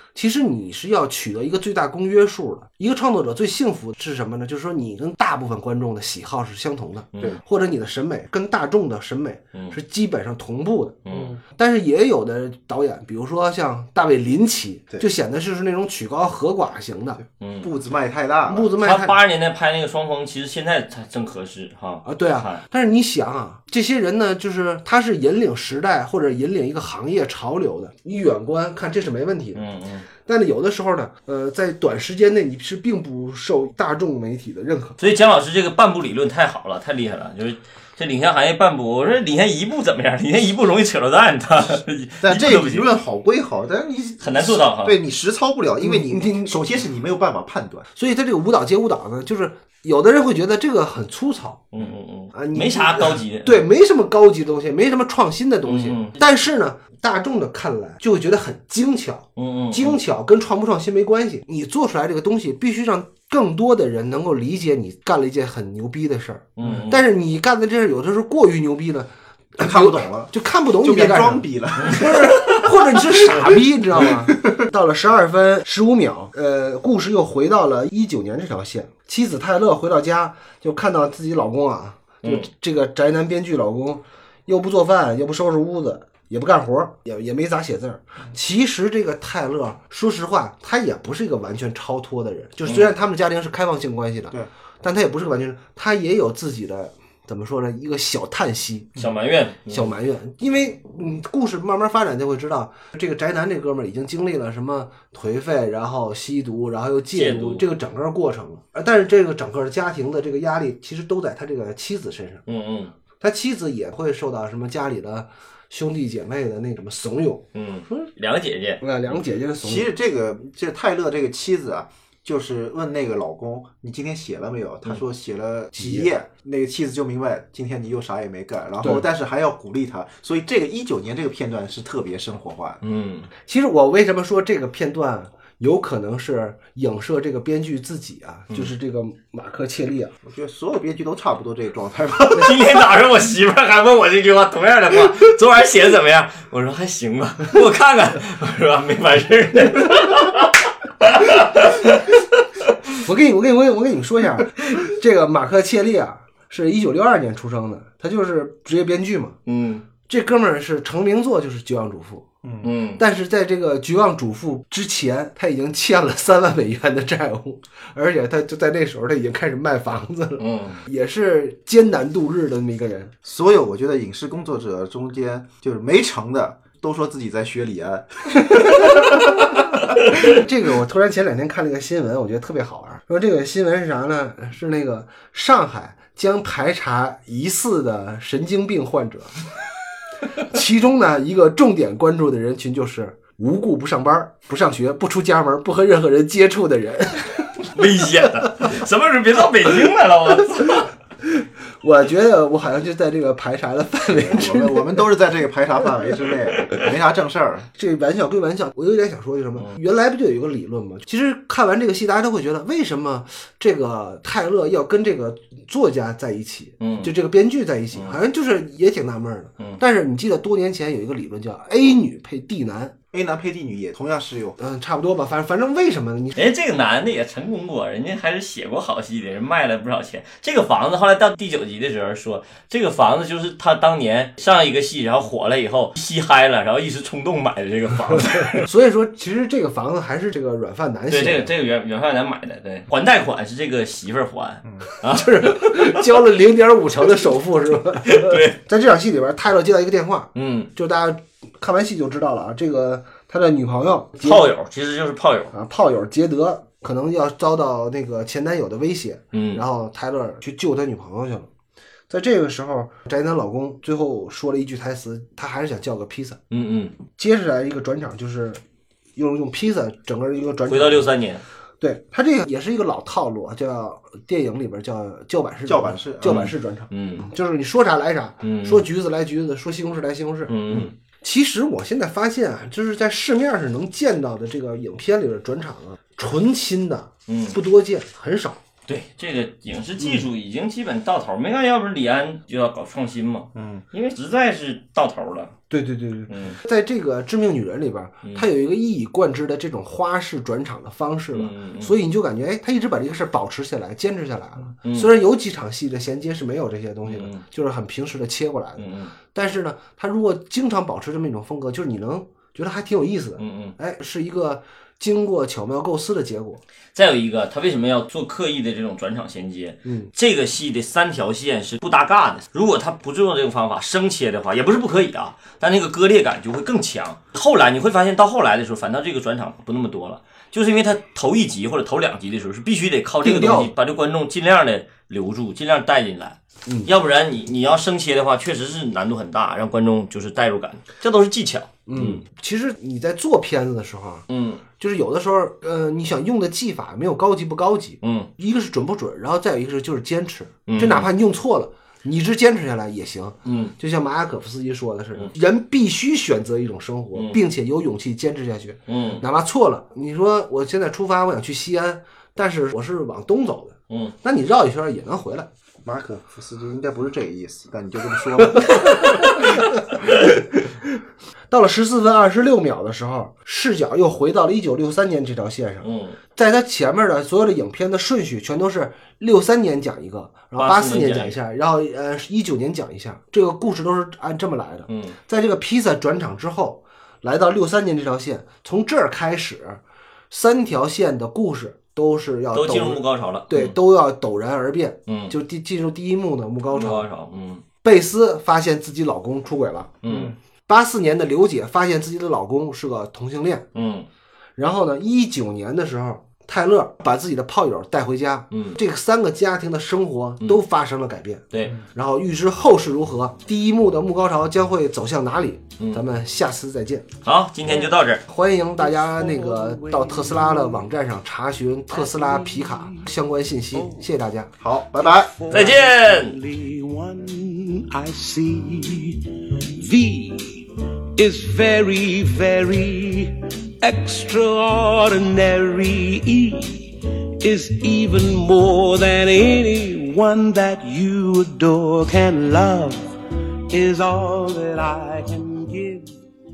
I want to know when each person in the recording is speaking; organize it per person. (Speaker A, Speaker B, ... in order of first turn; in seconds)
Speaker A: 0.1-17.2, 18.5-19.2, 22.0-29.6, 30.2-35.0, 45.8-46.5, 47.9-51.7, 52.3-98.9, 99.7-112.4, 113.2-118.1, 118.8-119.9, 125.7-126.1, 133.4-140.1, 153.0-159.4, 160.1-162.2, 163.0-173.1, 180.1-189.4, 190.4-197.6, 201.3-205.0, 207.7-222.9, 224.6-226.4, 238.6-241.5, 245.1-254.5, 255.5-261.5, 262.1-266.4, 267.1-268.6, 269.1-271.1, 271.8-288.6, 295.7-316.6, 319.8-320.1, 333.2-333.7, 336.6-336.9, 341.9-344.2, 344.8-365.5, 368.6-369.6, 371.5-375.8, 376.4-397.1, 397.8-399.9, 400.7-403.6, 404.6-417.1, 418.3-424.5
Speaker B: 7.1-7.4, 11.1-11.4, 17.4-17.7, 18.8-22.6, 29.5-30.1, 35.0-42.9, 44.2-45.0, 51.7-53.6, 55.6-56.2, 59.4-60.0, 66.6-67.0, 71.8-72.7, 92.7-92.9, 99.0-99.9, 107.1-107.7, 112.5-112.9, 117.5-118.8, 132.8-133.3, 142.3-152.2, 159.4-159.8, 162.6-163.0, 170.4-170.8, 197.7-200.9, 216.8-217.1, 226.3-238.7, 241.1-246.1, 248.0-248.6, 250.3-250.7, 254.2-255.5, 259.3-259.6, 266.5-267.0, 270.7-271.4, 276.2-277.2, 278.4-278.9, 280.5-280.9, 287.3-287.6, 288.9-295.6, 296.3-296.6, 301.3-301.9, 304.8-305.1, 307.0-307.4, 308.8-309.1, 313.4-313.7, 316.9-342.2, 344.3-344.6, 348.0-348.3, 350.7-351.1, 353.4-353.7, 357.1-357.4, 358.9-359.2, 363.9-364.1, 375.8-376.2, 380.6-381.4, 384.9-385.2, 392.5-393.8, 395.1-395.3, 396.7-397.6, 400.0-400.3, 403.7-404.1, 408.5-408.8, 417.2-418.2, 425.5-426.3
Speaker C: 17.6-18.7, 42.2-47.9, 69.6-72.4, 73.9-74.6, 119.6-132.8, 140.2-142.8, 162.4-162.7, 173.2-179.4, 204.1-207.7, 223.1-224.6, 275.6-276.5, 293.5-293.8, 365.8-369.2, 400.0-400.3, 424.6-425.3
Speaker D: 417.6-418.0, 418.8-420.9, 421.9-423.1, 423.7-424.1, 424.9-443.2, 443.7-446.2